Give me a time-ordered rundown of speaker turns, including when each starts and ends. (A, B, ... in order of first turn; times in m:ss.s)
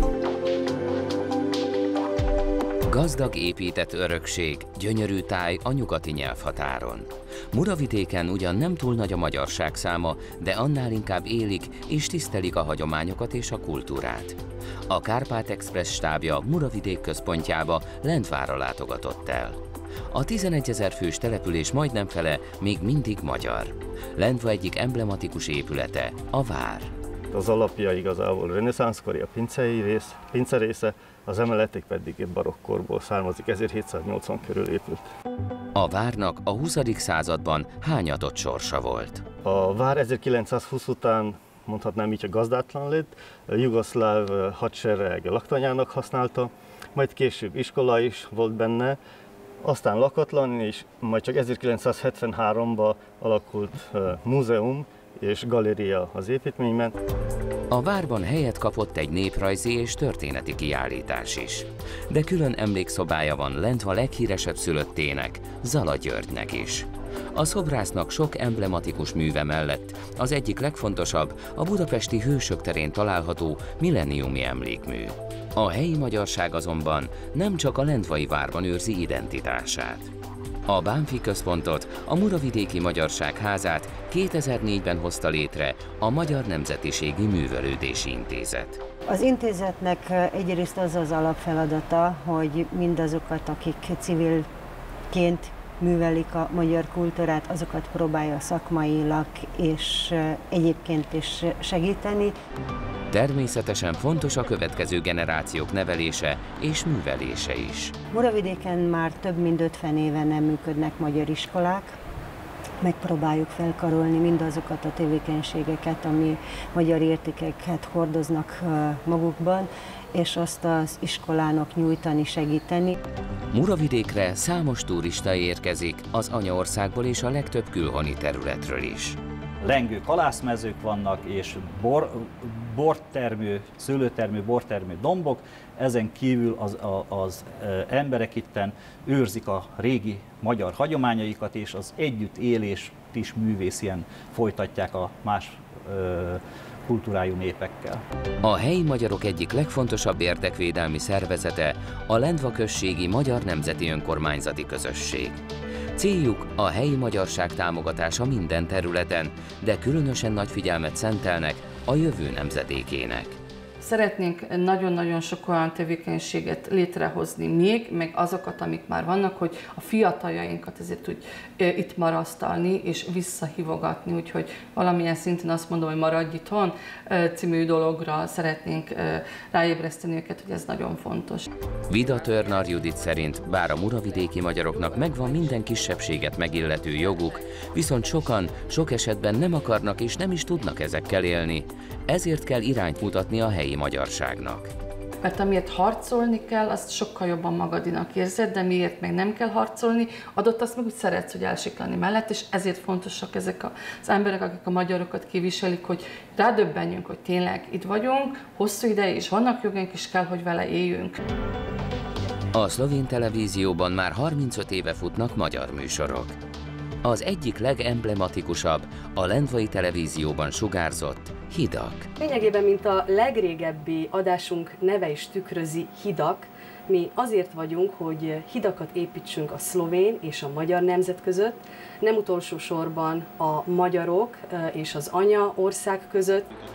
0:02.9-0:14.4 A
0:14.9-0:19.6 A
0:20.1-0:26.9 A
0:27.3-0:35.0 B
0:35.8-0:39.2 A
0:39.4-0:49.0 B
0:49.6-0:56.9 B
0:57.7-1:20.1 A
1:20.7-1:28.8 A
1:29.1-1:34.5 C
1:35.1-1:42.4 C
1:43.1-1:48.0 A
1:48.1-1:52.0 C
1:52.8-2:02.9 C
2:03.5-2:09.2 A
2:09.6-2:28.0 D
2:28.4-2:35.4 A
2:36.0-2:43.4 A
2:43.8-3:01.5 E
3:01.9-3:14.7 A
3:15.2-3:31.2 E
3:32.5-3:36.4 A
3:37.0-3:42.1 A
3:42.2-3:56.5 F